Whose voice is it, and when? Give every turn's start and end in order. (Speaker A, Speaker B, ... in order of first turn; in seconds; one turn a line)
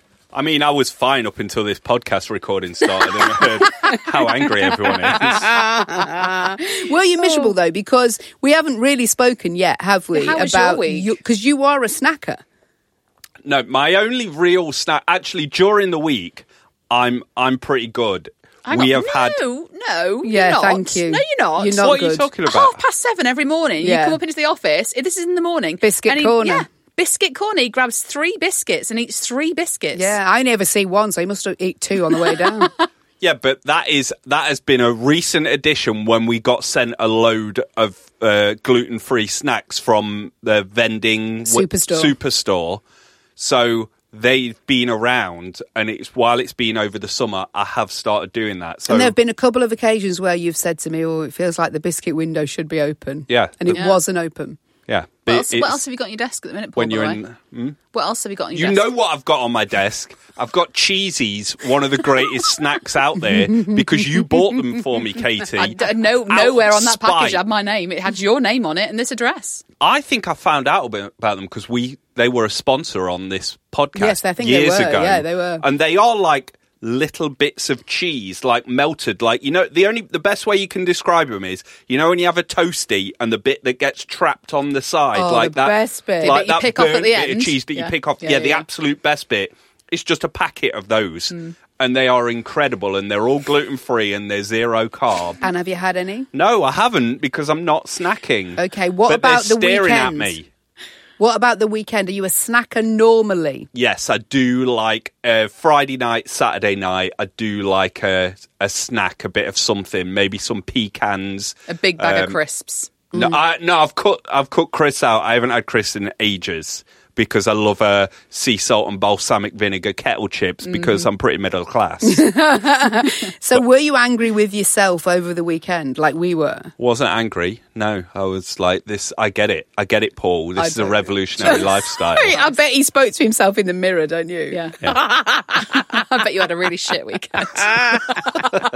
Speaker A: 0.3-5.5
Speaker B: 5.6-12.4
Speaker C: 10.1-11.2
Speaker A: 13.4-19.4
Speaker C: 18.6-21.9
Speaker B: 20.2-22.3
Speaker A: 21.8-22.8
Speaker C: 22.5-30.1
Speaker B: 23.8-24.2
Speaker B: 25.8-26.6
Speaker B: 29.9-32.7
Speaker A: 33.2-42.8
Speaker B: 41.5-42.1
Speaker A: 43.4-49.1
Speaker B: 48.9-54.6
Speaker A: 53.3-53.8
Speaker C: 53.7-54.0
Speaker A: 54.9-55.8
Speaker C: 55.3-57.2
Speaker A: 56.8-57.8
Speaker C: 57.9-58.9
Speaker A: 58.5-67.4
Speaker C: 65.6-69.6
Speaker A: 69.8-95.4
Speaker B: 74.0-75.7
Speaker B: 85.1-86.4
Speaker C: 86.2-88.7
Speaker B: 95.4-96.3
Speaker A: 96.3-100.5
Speaker B: 98.5-100.4
Speaker B: 101.2-103.7
Speaker A: 103.7-112.4
Speaker C: 111.7-113.0
Speaker B: 113.1-113.4
Speaker A: 113.1-122.3
Speaker C: 120.6-121.1
Speaker B: 122.0-126.7
Speaker A: 126.8-132.3
Speaker B: 130.6-134.6
Speaker C: 134.5-138.4